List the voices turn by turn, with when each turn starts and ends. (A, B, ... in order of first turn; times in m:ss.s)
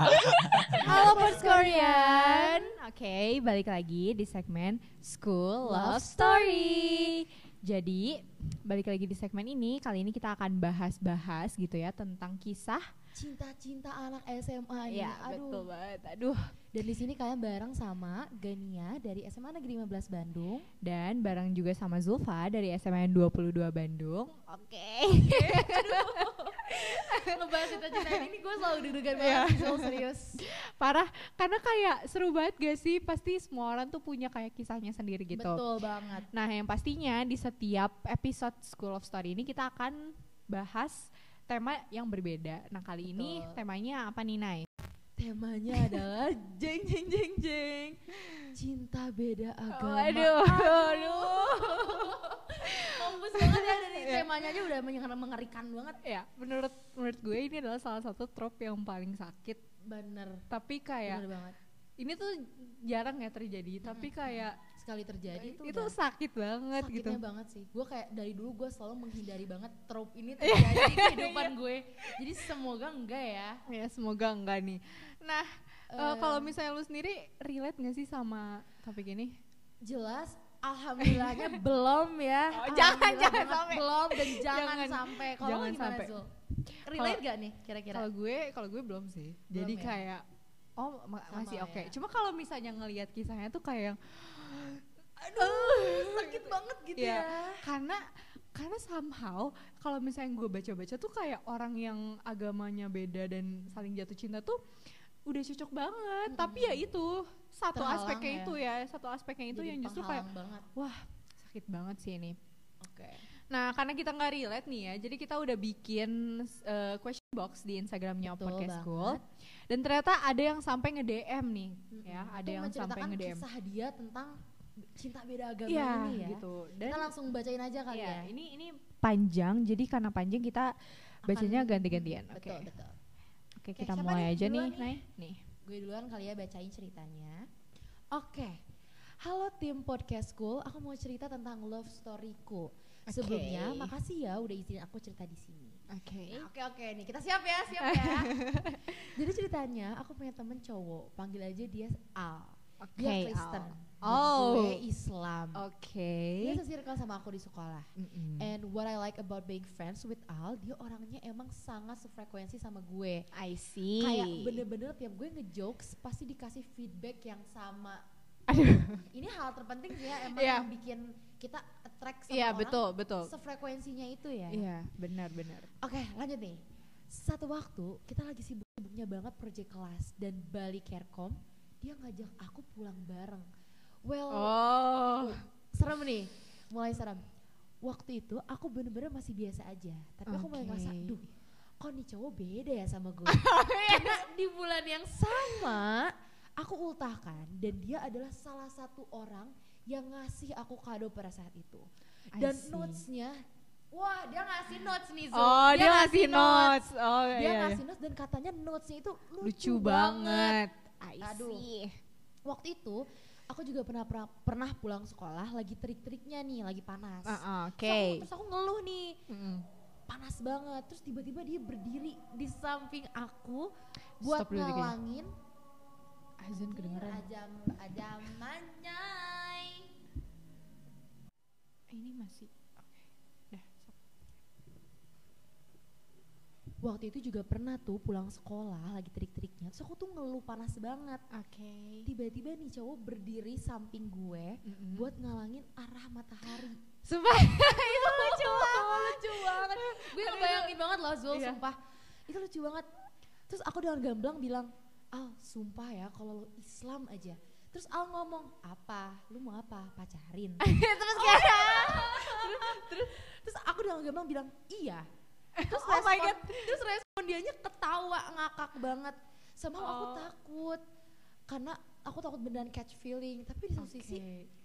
0:00.7-0:02.7 A
0:00.8-0:12.8 B
0:05.6-0:07.0 A
0:13.2-0:15.7 A
0:14.9-0:16.4 B
0:16.7-0:20.7 A
0:20.8-0:28.3 B
0:25.1-0:30.4 A
0:29.2-0:35.7 B
0:35.3-0:36.3 A
0:36.3-0:44.7 B
0:43.1-0:43.6 A
0:45.2-0:56.0 A
0:49.7-0:54.4 B
0:56.0-0:59.6 B
0:59.8-1:00.4 A
1:00.5-1:01.2 B
1:01.0-1:01.6 A
1:02.0-1:04.6 B
1:03.8-1:05.9 A
1:05.3-1:07.2 B
1:06.8-1:13.6 A
1:10.4-1:11.5 B
1:13.7-1:19.3 B
1:15.9-1:16.5 A
1:19.8-1:26.3 A
1:21.0-1:21.6 B
1:22.5-1:26.2 B
1:26.8-1:27.2 B
1:26.8-1:28.1 A
1:27.9-1:30.2 B
1:29.5-1:30.0 A
1:30.8-1:44.6 B
1:31.3-1:32.0 A
1:35.2-1:37.6 A
1:45.3-1:52.4 B
1:46.3-1:46.8 A
1:47.7-1:48.6 A
1:49.5-1:50.7 A
1:52.8-1:53.2 A
1:53.5-2:03.4 B
1:58.2-1:59.2 A
2:01.9-2:08.3 A
2:05.7-2:07.1 B
2:07.9-2:10.7 B
2:11.2-2:12.7 B
2:11.2-2:13.0 A
2:13.6-2:15.4 B
2:13.8-2:15.0 A
2:15.6-2:17.4 A
2:18.1-2:18.6 A
2:19.2-2:25.8 A
2:23.1-2:23.9 B
2:25.9-2:26.5 B
2:26.3-2:35.6 A
2:27.7-2:29.0 B
2:32.8-2:34.8 B
2:35.5-2:36.6 B
2:36.4-2:43.3 A
2:38.0-2:38.5 B
2:43.3-2:44.6 B
2:44.0-2:48.0 A
2:48.5-2:49.0 B
2:48.7-2:54.6 A
2:50.1-2:50.7 B
2:52.3-2:53.3 B
2:54.5-2:55.7 B
2:55.8-2:56.6 A
2:57.1-3:03.4 A
3:04.0-3:04.6 A
3:04.3-3:05.4 B
3:05.2-3:07.2 A
3:07.8-3:11.3 A
3:10.3-3:11.2 B
3:11.8-3:23.4 A
3:13.2-3:14.2 B
3:15.4-3:15.7 B
3:22.3-3:23.0 B
3:23.9-3:30.6 A
3:25.3-3:27.8 B
3:29.4-3:31.9 B
3:31.2-3:31.7 A
3:32.4-3:39.2 A
3:37.2-3:38.3 B
3:39.3-3:39.7 B
3:40.1-3:43.7 A
3:44.2-3:45.0 B
3:44.2-3:45.3 A
3:46.4-3:47.2 B
3:46.5-3:49.9 A
3:51.9-3:54.0 B
3:56.8-4:01.2 A
4:01.3-4:02.1 B
4:02.0-4:06.8 A
4:04.6-4:05.1 B
4:07.0-4:10.8 B
4:07.5-4:11.8 A
4:11.3-4:11.6 B
4:12.3-4:12.9 A
4:13.5-4:25.0 A
4:20.6-4:23.1 B
4:25.6-4:26.8 B
4:25.6-4:30.8 A
4:29.8-4:30.3 B
4:31.5-4:34.2 A
4:33.8-4:34.5 B